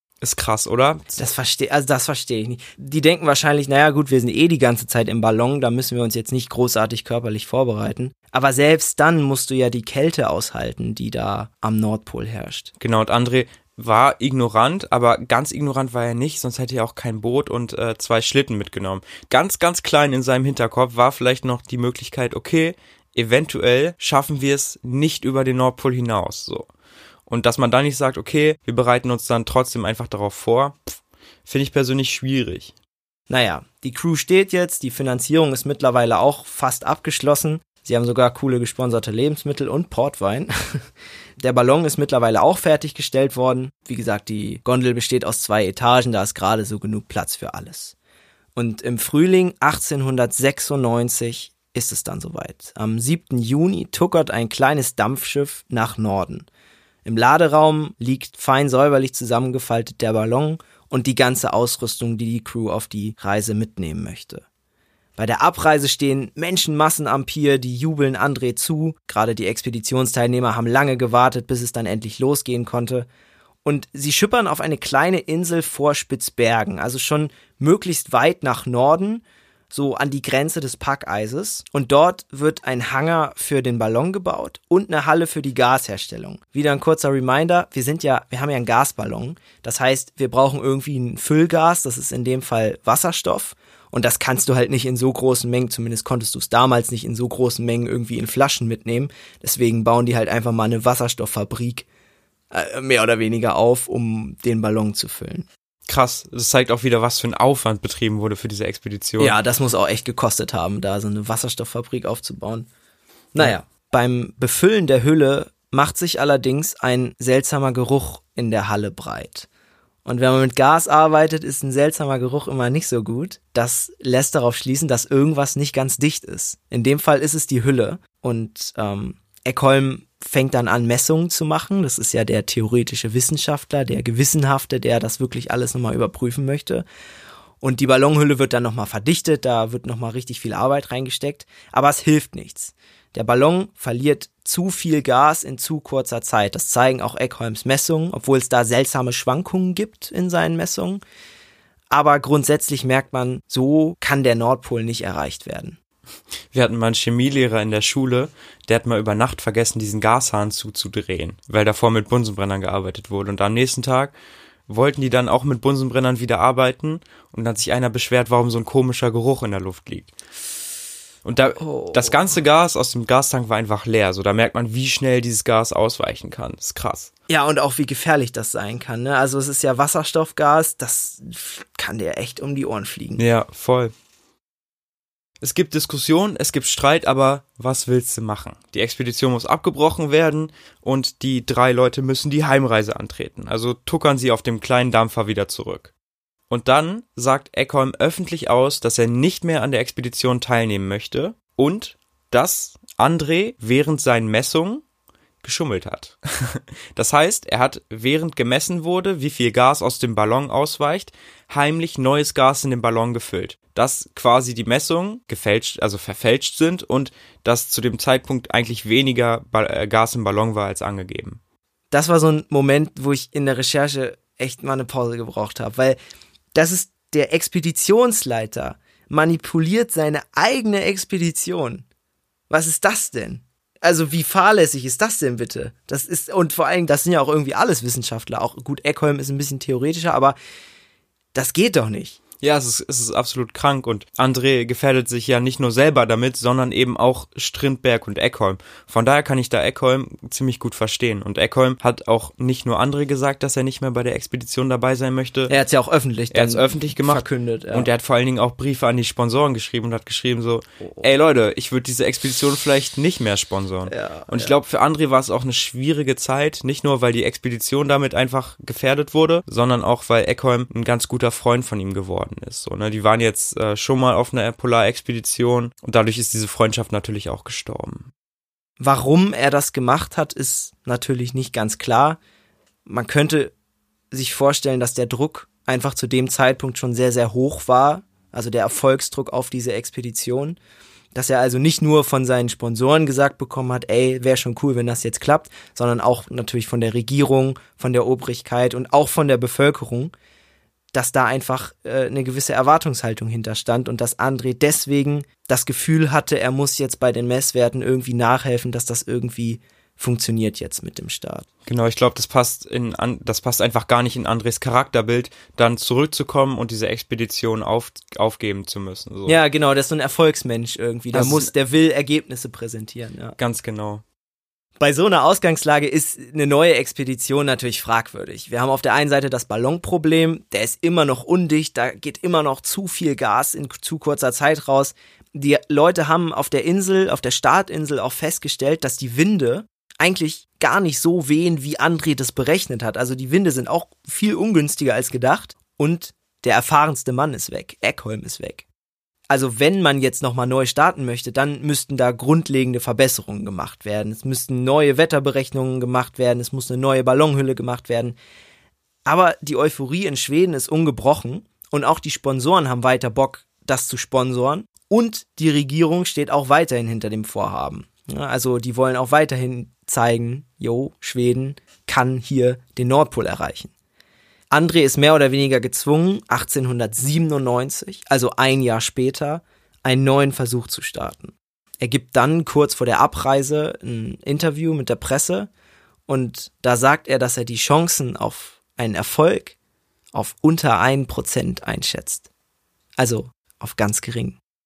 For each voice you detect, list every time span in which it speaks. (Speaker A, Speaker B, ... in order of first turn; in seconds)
Speaker A: 0.2-1.3, 12.8-26.7, 27.3-32.7, 105.9-109.4, 156.5-164.1, 164.7-170.1, 171.2-177.1, 183.2-183.9, 185.4-195.9, 196.5-204.8, 205.4-221.4, 242.4-255.6, 256.3-278.1, 311.7-319.4, 321.1-321.5, 323.4-324.0
Speaker B: 1.2-12.7, 33.3-40.8, 41.4-48.0, 48.6-56.5, 57.0-64.4, 65.2-73.1, 73.7-101.9, 102.5-105.5, 109.2-112.7, 113.3-119.5, 120.0-136.8, 137.6-151.0, 151.9-155.8, 171.6-172.2, 177.3-183.2, 221.9-226.0, 226.6-231.8, 232.5-240.4, 241.3-242.2, 255.5-257.9, 263.9-264.6, 278.8-282.2, 282.9-283.5, 284.1-290.6, 291.1-300.1, 300.9-311.5, 319.3-323.4, 324.8-348.6, 349.3-358.2, 359.1-373.7, 374.5-385.5, 386.1-389.6, 390.1-392.2, 393.0-394.4